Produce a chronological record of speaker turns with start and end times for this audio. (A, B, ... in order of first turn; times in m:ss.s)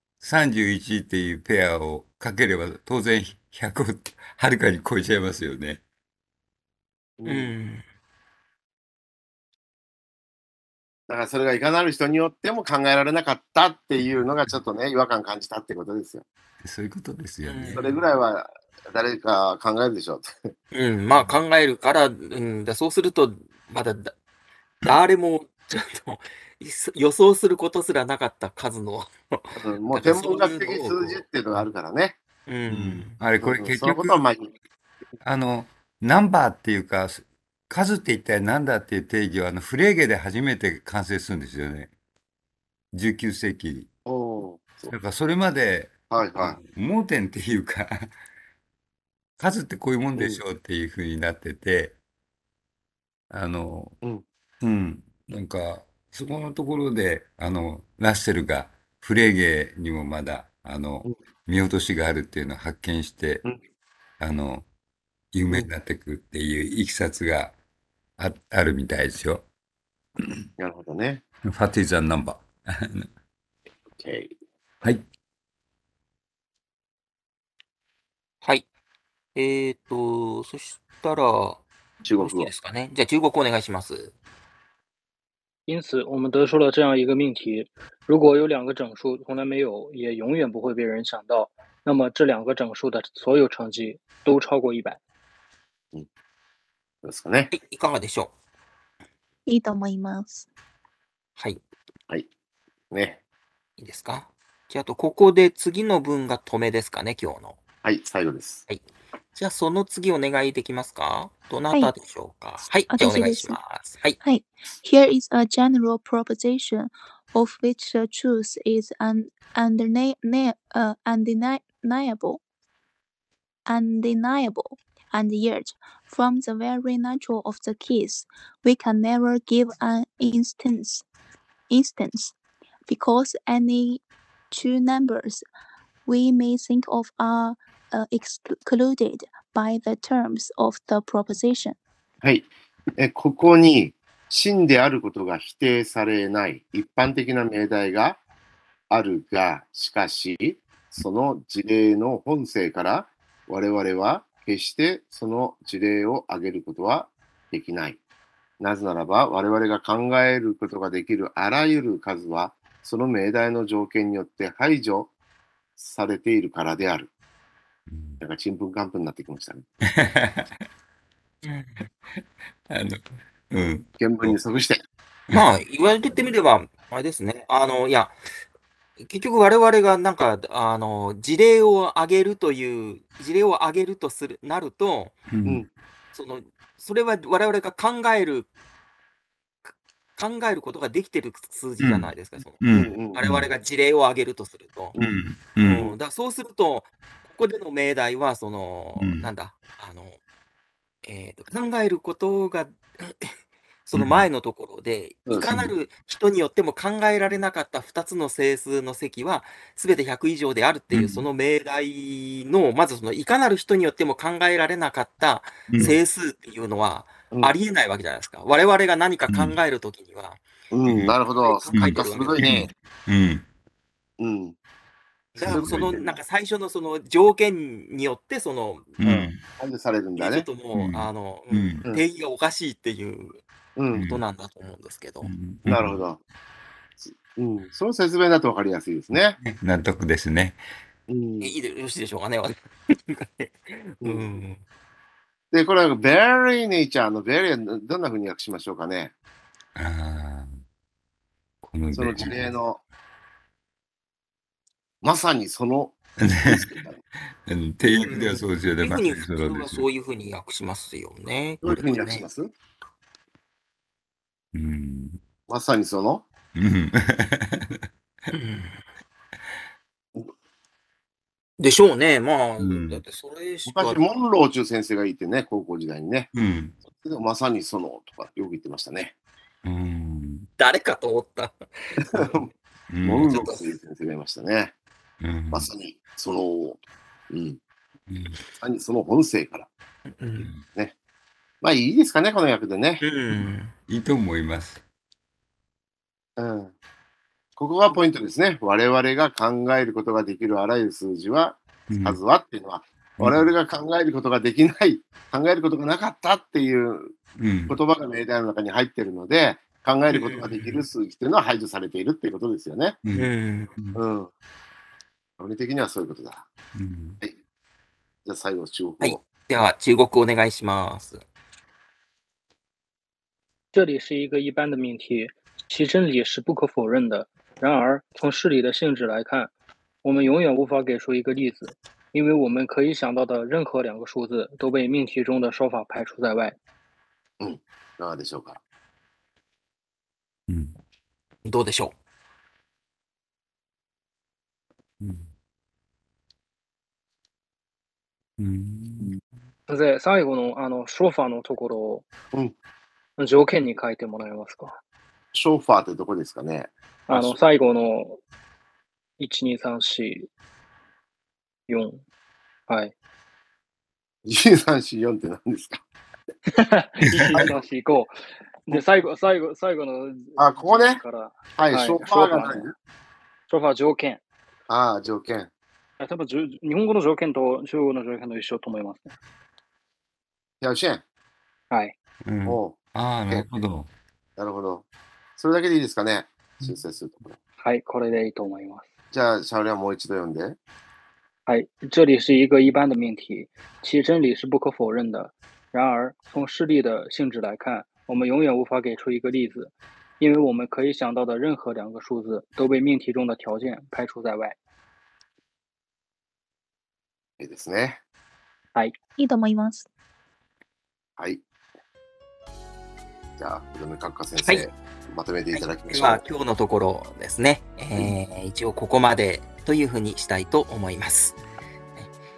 0:00.2-0:05.8 A
0:07.2-0:07.5 B
0:07.2-0:07.8 C
0:11.1-0:16.2 B
0:14.0-0:14.6 A
0:16.6-0:17.8 A
0:17.4-0:18.0 C
0:17.7-0:20.3 B
0:20.7-0:24.1 C
0:24.8-0:31.2 C
0:29.6-0:32.2 B
0:32.5-0:33.2 C
0:32.7-0:34.2 A
0:33.4-0:34.5 B
0:35.2-0:41.9 A
0:42.9-0:43.9 A
0:44.0-0:44.9 B
0:44.9-0:48.1 A
0:46.1-0:46.6 B
0:49.4-0:52.0 A
0:50.1-0:50.4 B
0:53.3-0:54.0 A
0:54.6-1:03.4 A
1:04.2-1:04.6 A
1:05.3-1:07.5 A
1:08.2-1:09.4 A
1:10.6-1:11.2 B
1:11.4-1:13.1 A
1:14.0-1:14.3 B
1:19.3-1:21.6 C
1:22.0-1:22.5 B
1:22.2-1:24.1 C
1:25.7-1:35.0 D
1:37.0-1:37.5 B
1:37.5-1:38.3 C
1:39.4-1:40.5 E
1:42.9-1:43.2 B
1:43.8-1:47.6 C
1:47.8-1:48.6 B
1:49.3-1:54.2 C
1:52.9-1:53.6 E
1:54.2-2:02.4 E
2:03.7-2:11.0 E
2:11.7-2:12.3 E
2:12.9-2:15.4 E
2:16.0-2:21.8 E
2:22.2-2:28.2 B
2:28.9-2:38.0 B
2:38.6-2:45.1 B
2:45.8-2:47.1 B
2:47.9-2:48.2 A
2:48.2-2:49.6 B
2:49.9-2:50.5 A
2:51.4-2:51.9 C
2:52.7-2:54.4 A
2:54.0-2:54.8 B
2:55.3-2:58.2 C
2:59.0-3:05.2 C
3:05.3-3:05.6 A
3:06.1-3:08.5 C
3:09.6-3:15.0 C
3:11.8-3:13.5 A
3:12.7-3:13.2 B
3:14.9-3:15.9 B
3:15.0-3:15.9 A
3:15.6-3:20.2 C
3:19.0-3:19.3 A
3:21.0-3:23.3 C
3:23.9-3:40.4 C
3:23.9-3:24.3 A
3:25.3-3:25.5 B
3:25.4-3:25.7 A
3:30.9-3:31.2 A
3:35.7-3:36.0 A
3:39.3-3:39.6 A
3:40.7-3:42.7 B
3:40.9-3:41.1 A
3:41.4-3:42.5 C
3:41.7-3:43.4 A
3:44.2-3:44.5 B
3:45.3-3:48.9 C
3:45.4-3:46.0 A
3:45.4-3:46.2 B
3:49.0-3:49.4 A
3:49.0-3:50.4 B
3:50.2-3:53.4 C
3:50.7-3:51.9 A
3:53.8-3:54.0 B
3:53.9-3:54.2 A
3:54.0-3:55.3 C
3:55.2-3:56.0 A
3:55.6-3:56.2 B
3:57.0-3:59.4 B
3:59.4-4:00.6 A
4:01.1-4:01.5 B
4:01.4-4:04.6 C
4:04.0-4:04.3 B
4:05.5-4:09.1 B
4:09.7-4:10.6 A
4:11.6-4:12.5 A
4:11.9-4:12.8 B
4:15.0-4:17.0 B
4:16.2-4:16.8 A
4:17.4-4:19.8 A
4:17.9-4:22.2 C
4:21.6-4:22.5 B
4:24.5-4:25.2 A
4:25.5-4:26.2 B
4:26.5-4:27.8 A
4:28.3-4:28.8 C
4:31.6-4:34.0 C
4:32.6-4:33.0 A
4:33.7-4:36.3 B
4:36.3-4:36.8 A
4:36.9-4:39.1 B
4:39.6-4:40.5 A
4:40.6-4:41.6 C
4:42.0-4:42.5 B
4:42.9-4:43.4 A
4:43.0-4:44.7 B
4:43.2-4:43.7 C
4:45.2-4:45.7 A
4:45.5-4:46.8 B
4:47.3-4:47.6 B
4:48.1-4:48.4 A
4:48.6-4:49.7 B
4:50.1-4:50.5 C
4:51.6-4:53.0 B
4:53.0-4:53.7 C
4:53.3-4:54.8 A
4:56.4-4:56.7 B
4:57.6-5:07.1 B
5:01.9-5:02.2 A
5:03.2-5:03.5 A
5:07.4-5:07.8 A
5:07.7-5:13.0 B
5:10.1-5:10.8 C
5:13.0-5:14.0 A
5:13.2-5:13.7 C
5:14.0-5:14.3 B
5:15.4-5:16.4 B
5:16.7-5:17.2 A
5:18.2-5:19.2 B
5:19.0-5:21.2 C
5:23.7-5:29.5 D
5:30.0-5:36.6 D
5:37.4-5:38.6 B
5:40.5-5:40.8 A
5:41.4-5:41.9 C
5:45.0-5:45.3 A
5:48.4-5:49.2 A
5:49.7-5:52.1 D
5:53.2-5:54.8 D
5:55.3-5:57.4 B
5:57.1-5:58.2 D
5:59.2-6:00.3 D
6:01.7-6:02.0 D
6:02.7-6:02.9 D
6:04.2-6:05.8 B
6:06.5-6:08.1 D
6:07.0-6:07.5 A
6:08.6-6:12.7 D
6:10.4-6:11.0 B
6:11.6-6:12.7 B
6:13.5-6:14.2 D
6:14.7-6:15.5 B
6:16.0-6:19.1 D
6:20.6-6:21.0 B
6:22.2-6:23.9 A
6:22.5-6:22.7 B
6:24.4-6:24.8 B
6:25.4-6:27.4 B
6:27.6-6:28.9 D
6:29.1-6:30.6 B
6:31.5-6:44.5 D
6:47.4-6:48.0 B
6:49.2-6:49.9 E
6:53.4-6:56.2 B
6:54.4-6:54.7 C
6:55.5-7:01.4 C